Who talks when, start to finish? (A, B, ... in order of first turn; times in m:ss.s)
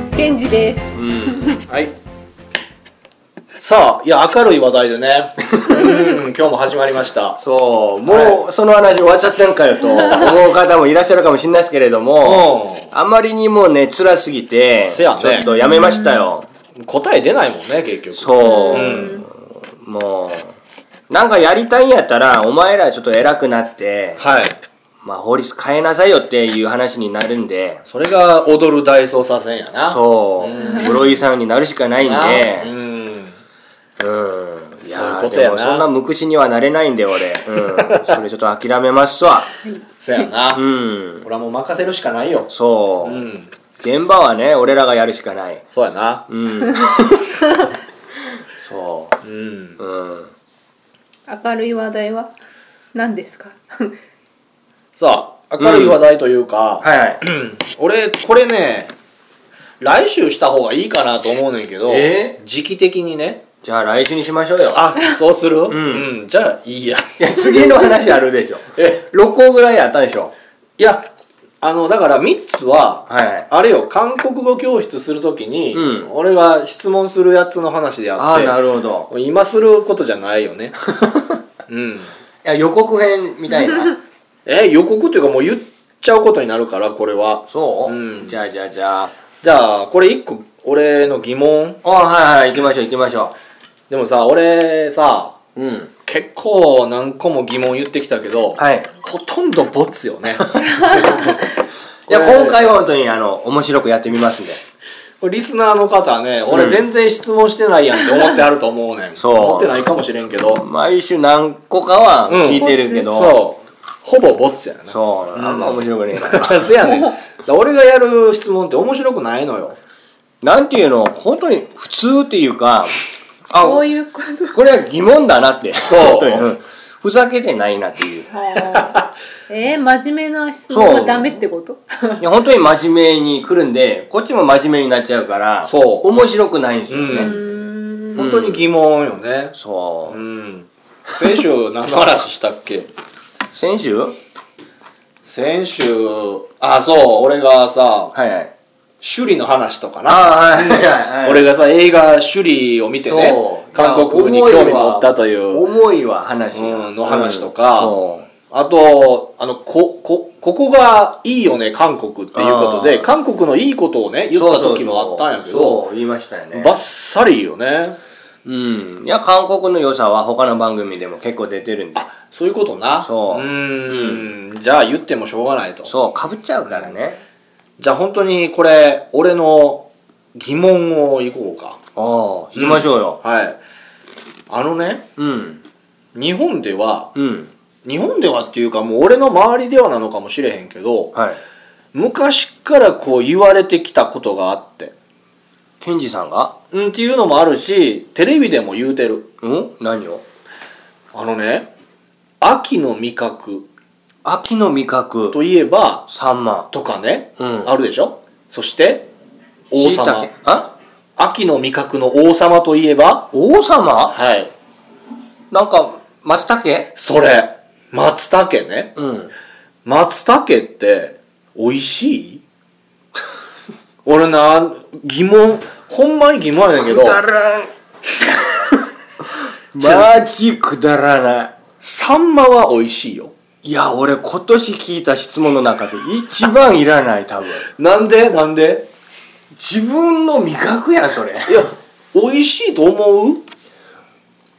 0:00.1-0:01.6 A
0:00.9-0:01.6 B
0:01.7-0:01.9 C
0:03.6-0:07.4 C
0:05.8-0:06.1 A
0:07.4-0:16.5 B
0:08.0-0:08.4 C
0:10.0-0:10.4 C
0:12.2-0:12.9 C
0:14.8-0:15.5 C
0:15.4-0:16.2 A
0:16.8-0:19.2 C
0:18.1-0:20.6 B
0:18.4-0:19.2 A
0:21.1-0:24.2 B
0:24.2-0:24.6 C
0:25.0-0:27.8 B
0:27.9-0:31.1 C
0:29.8-0:32.7 B
0:30.6-0:31.1 A
0:32.0-0:33.3 C
0:34.0-0:39.5 B
0:34.9-0:35.9 C
0:37.9-0:38.2 C
0:40.0-0:40.6 C
0:40.5-0:41.3 B
0:41.2-0:42.5 C
0:42.5-0:43.3 B
0:43.0-0:43.5 C
0:43.8-0:45.6 B
0:45.7-0:46.2 C
0:46.3-0:47.4 B
0:48.5-0:49.2 B
0:49.2-0:49.8 C
0:49.8-0:50.3 B
0:51.3-0:52.3 A
0:52.9-0:53.9 A
0:55.0-0:58.9 C
0:55.6-0:56.0 B
0:56.8-0:57.2 B
0:59.8-1:03.4 C
1:01.8-1:02.4 B
1:03.6-1:04.9 B
1:04.7-1:07.1 C
1:05.7-1:06.1 B
1:07.2-1:10.3 B
1:10.8-1:11.1 C
1:11.6-1:18.6 C
1:13.1-1:13.5 B
1:15.7-1:16.1 B
1:18.2-1:19.1 B
1:19.1-1:20.8 C
1:21.7-1:22.1 C
1:22.4-1:24.0 B
1:24.4-1:28.3 C
1:27.5-1:29.1 B
1:29.4-1:31.8 C
1:31.8-1:33.3 B
1:33.9-1:35.3 C
1:35.6-1:35.9 B
1:36.1-1:41.4 C
1:38.6-1:38.9 B
1:40.8-1:41.2 A
1:42.1-1:42.6 C
1:42.1-1:44.6 B
1:45.2-1:50.6 C
1:46.5-1:46.9 B
1:48.0-1:48.3 A
1:49.2-1:49.9 B
1:50.6-1:53.4 B
1:52.3-1:59.8 C
1:54.9-1:56.7 B
1:56.8-1:57.1 A
2:00.4-2:03.0 B
2:03.5-2:03.9 B
2:03.5-2:04.6 A
2:04.5-2:08.3 B
2:05.9-2:06.5 C
2:08.3-2:12.2 A
2:10.7-2:11.4 B
2:12.2-2:17.3 B
2:15.7-2:16.1 C
2:16.9-2:17.4 C
2:17.1-2:18.2 A
2:18.1-2:19.5 C
2:18.2-2:18.7 B
2:19.5-2:20.2 B
2:20.1-2:22.9 C
2:23.5-2:24.2 B
2:25.3-2:28.1 C
2:28.1-2:28.5 B
2:29.0-2:35.6 C
2:30.0-2:31.4 B
2:33.0-2:38.3 B
2:36.5-2:38.0 C
2:38.5-2:45.8 C
2:42.3-2:43.1 B
2:44.3-2:46.8 B
2:46.5-2:48.0 C
2:48.4-2:52.1 B
2:51.9-2:55.9 C
2:53.0-2:54.3 B
2:55.8-2:57.2 B
2:56.6-2:56.9 C
2:57.8-3:01.8 C
3:02.0-3:03.2 B
3:02.5-3:03.6 C
3:04.5-3:05.0 C
3:05.2-3:05.6 B
3:06.1-3:07.1 C
3:07.1-3:07.5 B
3:07.8-3:11.1 C
3:11.1-3:11.4 B
3:11.9-3:14.9 C
3:15.8-3:16.5 B
3:16.7-3:19.3 C
3:19.4-3:20.2 B
3:21.1-3:21.7 C
3:22.4-3:23.7 C
3:24.2-3:25.4 B
3:25.3-3:26.0 C
3:26.1-3:26.7 B
3:26.7-3:29.1 C
3:27.4-3:27.7 B
3:29.7-3:30.3 C
3:29.7-3:30.7 B
3:31.2-3:33.3 C
3:33.3-3:34.2 B
3:34.1-3:34.5 C
3:35.5-3:36.9 B
3:36.9-3:38.9 C
3:39.0-3:39.3 B
3:39.8-3:42.4 C
3:44.0-3:47.2 C
3:46.8-3:47.7 B
3:49.7-3:51.5 B
3:49.8-3:50.2 C
3:51.8-3:53.3 C
3:53.6-3:57.7 B
3:57.8-3:58.9 C
3:59.5-4:01.7 B
4:01.5-4:03.4 C